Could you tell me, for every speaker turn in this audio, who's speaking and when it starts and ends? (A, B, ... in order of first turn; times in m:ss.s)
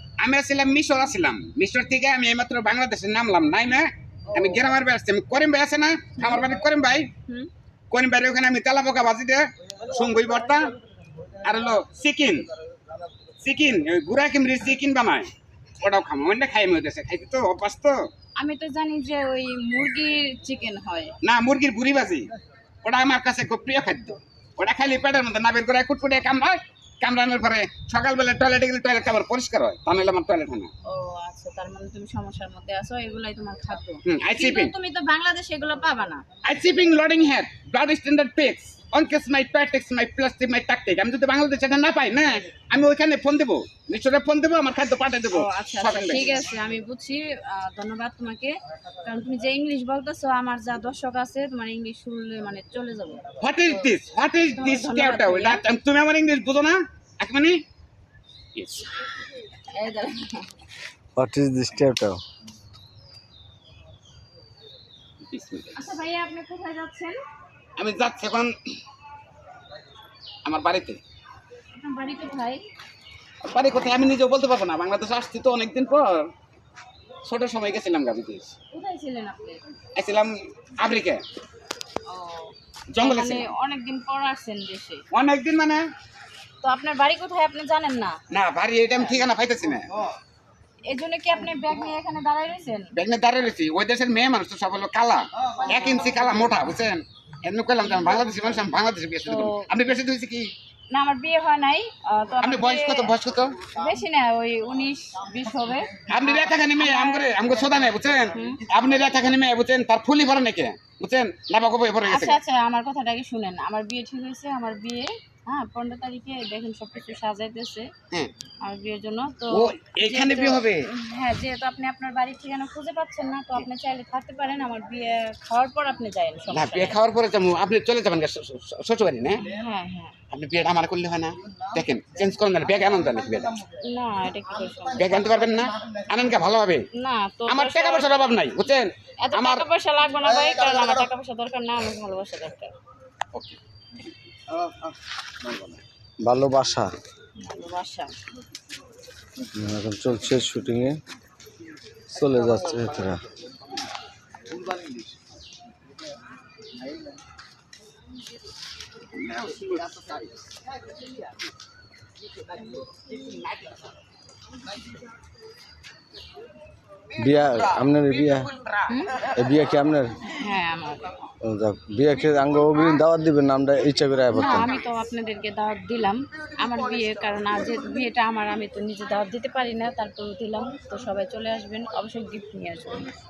0:00.2-0:07.1 A
0:07.9-0:10.7 A
0:11.4-0:12.5 A
0:13.4-0:15.3 A
0:15.8-0:18.0 A
0:18.4-0:21.1 B
0:21.2-0:22.3 A
0:22.8-0:30.7 A
0:30.8-0:36.2 B
0:34.0-0:34.7 A
0:36.4-0:46.4 A
0:45.3-0:53.2 B
0:53.4-0:57.6 A
0:54.6-0:55.6 B
0:58.6-0:58.9 A
0:59.7-1:00.5 B
1:01.2-1:02.2 C
1:05.3-1:05.8 A
1:05.8-1:07.2 B
1:07.8-1:08.5 A
1:10.4-1:11.0 A
1:11.7-1:12.6 B
1:13.4-1:16.3 A
1:17.2-1:18.5 A
1:18.7-1:19.6 B
1:20.0-1:21.2 A
1:22.1-1:25.0 B
1:22.9-1:23.4 A
1:25.1-1:25.8 A
1:26.6-1:28.2 B
1:28.3-1:29.9 A
1:30.9-1:32.9 B
1:33.0-1:40.5 A
1:39.3-1:39.7 B
1:40.9-1:43.1 B
1:42.4-1:43.6 A
1:43.7-1:47.3 B
1:46.1-1:52.4 A
1:48.3-1:48.6 B
1:52.0-1:57.9 B
1:58.6-2:07.0 B
1:59.5-2:00.9 A
2:06.5-2:09.5 A
2:09.4-2:10.2 B
2:10.3-2:13.6 A
2:13.8-2:15.2 B
2:14.9-2:16.8 A
2:16.9-2:18.1 B
2:17.5-2:19.6 A
2:19.2-2:22.7 B
2:25.4-2:25.8 A
2:26.2-2:26.9 C
2:27.4-2:28.2 B
2:29.5-2:31.0 C
2:32.1-2:33.2 C
2:39.1-2:40.2 A
2:43.2-2:43.8 A
2:47.1-2:48.9 A
2:47.2-2:48.5 C
2:48.9-2:49.2 B
2:49.3-2:50.1 C
2:50.2-2:51.1 B
2:51.4-2:54.7 C
2:54.3-3:03.1 B